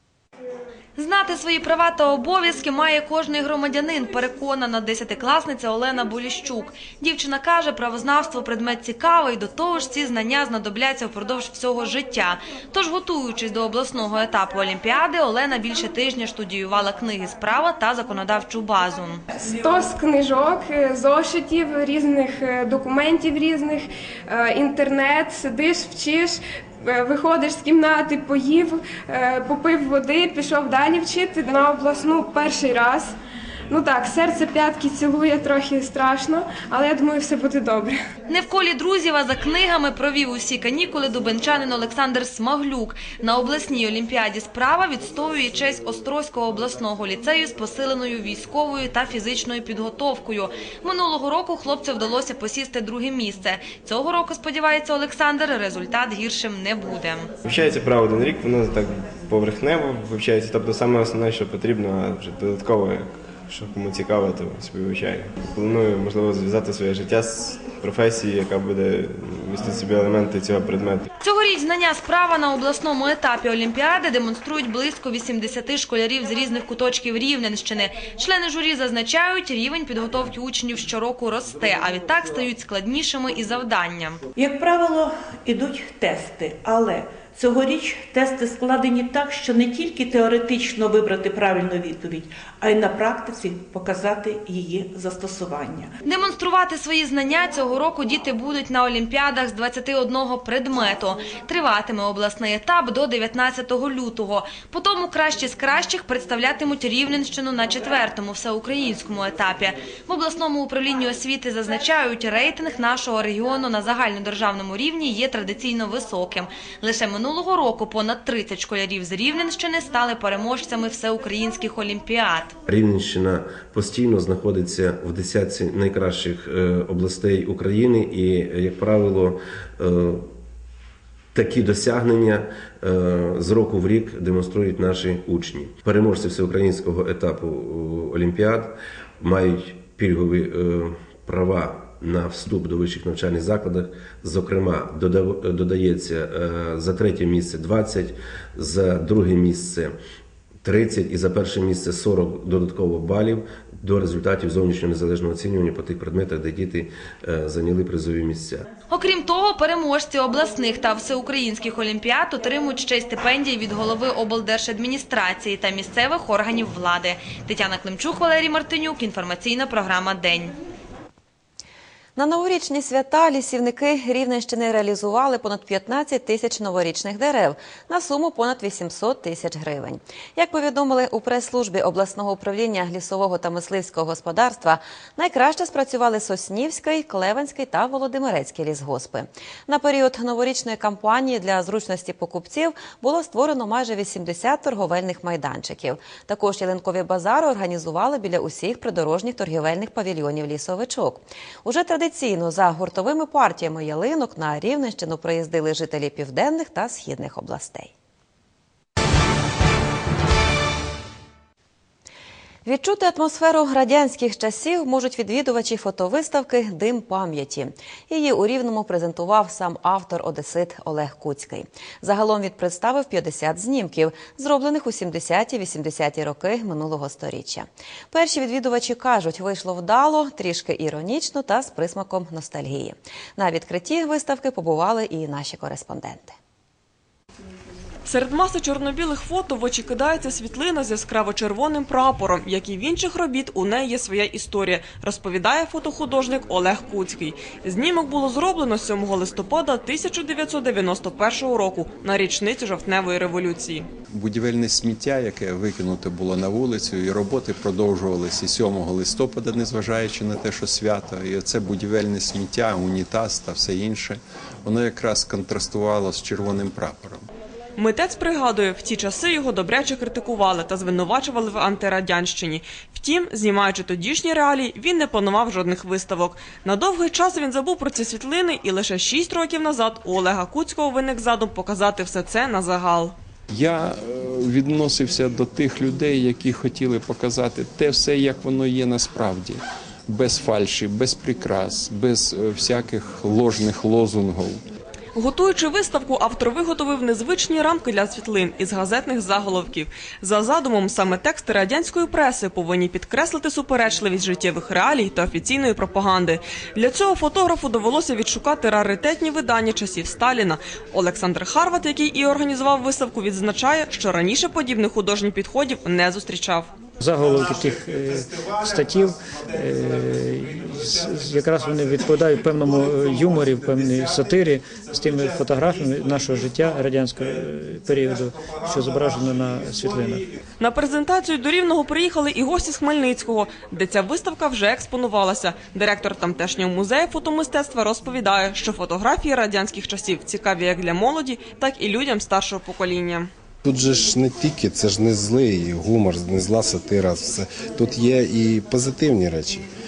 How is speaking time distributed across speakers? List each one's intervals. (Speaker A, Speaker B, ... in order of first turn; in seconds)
Speaker A: 0.9-19.2, 38.3-57.3, 71.2-84.2, 96.1-122.5, 158.9-170.6
Speaker B: 19.5-33.2, 33.7-38.0
Speaker C: 57.4-71.0
Speaker D: 84.3-95.9
Speaker E: 122.7-130.2, 131.3-149.9, 150.6-158.6
Speaker F: 172.2-207.9, 212.6-236.3
Speaker G: 238.1-253.9, 267.8-283.1, 295.1-316.7, 330.6-343.3
Speaker H: 254.1-267.2, 283.5-294.6
Speaker I: 317.0-330.3
Speaker J: 343.6-349.6